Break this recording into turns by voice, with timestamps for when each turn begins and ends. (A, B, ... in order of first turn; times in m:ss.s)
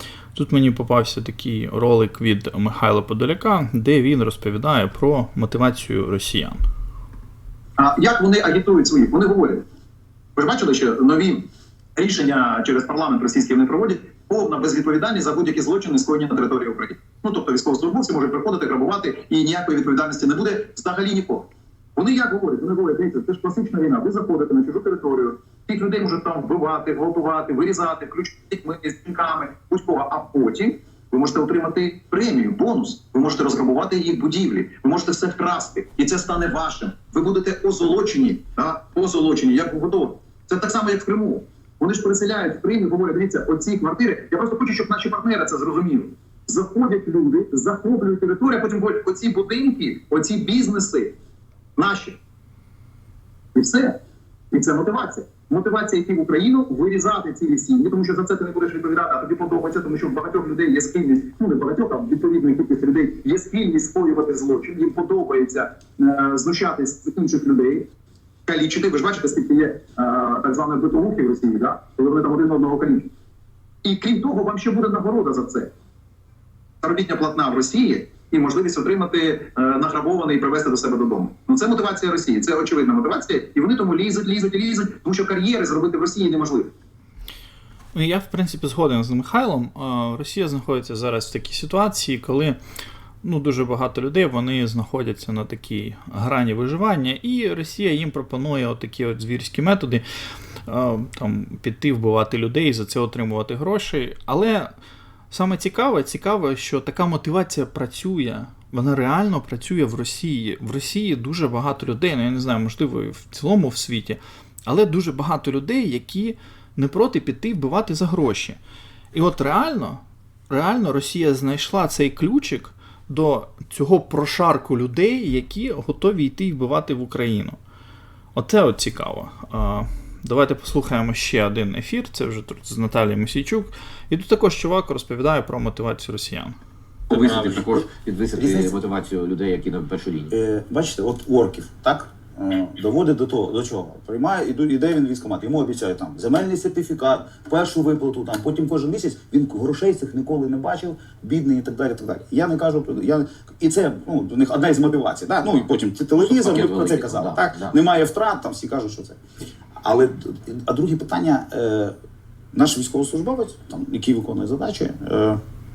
0:00.3-0:06.6 A
0:07.8-0:09.6 B
0:10.4-0:51.1 B
0:51.8-0:52.2 B
0:53.5-0:54.0 B
0:54.5-1:07.9 B
1:08.5-1:13.1 B
1:13.8-1:15.7 B
1:16.8-1:26.7 B
1:27.9-1:32.6 A
1:33.2-1:40.0 A
1:40.7-1:44.7 A
1:45.3-1:58.6 A
1:59.1-2:07.6 A
2:08.3-2:16.6 A
2:17.1-2:17.4 C
2:17.1-2:20.3 D
2:18.4-2:18.7 C
2:20.3-2:39.2 C
2:36.2-2:37.7 D
2:39.8-2:41.9 C
2:42.5-2:45.4 C